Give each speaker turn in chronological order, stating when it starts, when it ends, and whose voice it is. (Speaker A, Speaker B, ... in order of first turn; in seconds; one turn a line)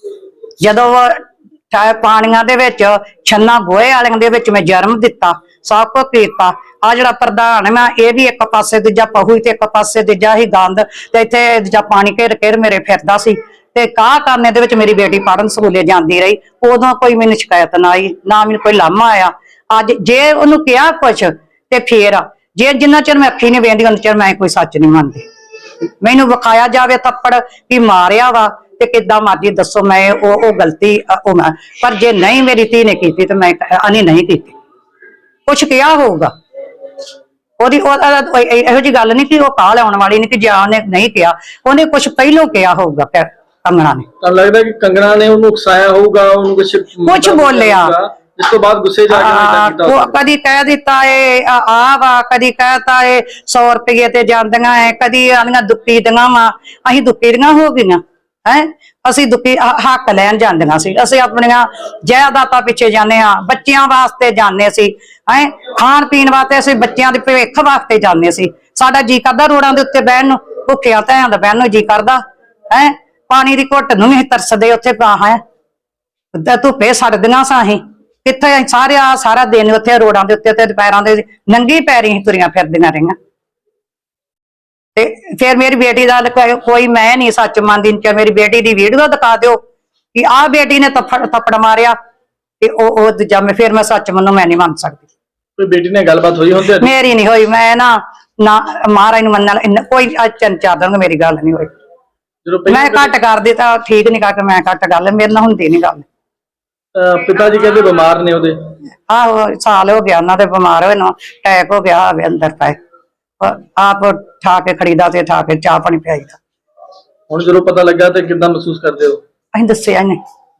Speaker A: 0.6-25.2
Speaker A: 26.0-34.5
Speaker A: 35.5-36.3
Speaker A: 37.6-44.1
Speaker B: 44.2-50.2
Speaker A: 47.1-47.9
Speaker A: 49.1-75.4
Speaker A: 76.3-83.2
Speaker A: 85.0-89.6
Speaker A: 90.1-91.9
Speaker A: 92.6-95.0
Speaker B: 95.6-96.9
Speaker A: 96.8-101.7
Speaker B: 102.4-103.1
Speaker A: 102.7-106.0
Speaker B: 106.9-108.5
Speaker A: 109.1-112.8
Speaker A: 113.4-116.4
Speaker B: 117.3-119.2
Speaker A: 119.5-120.2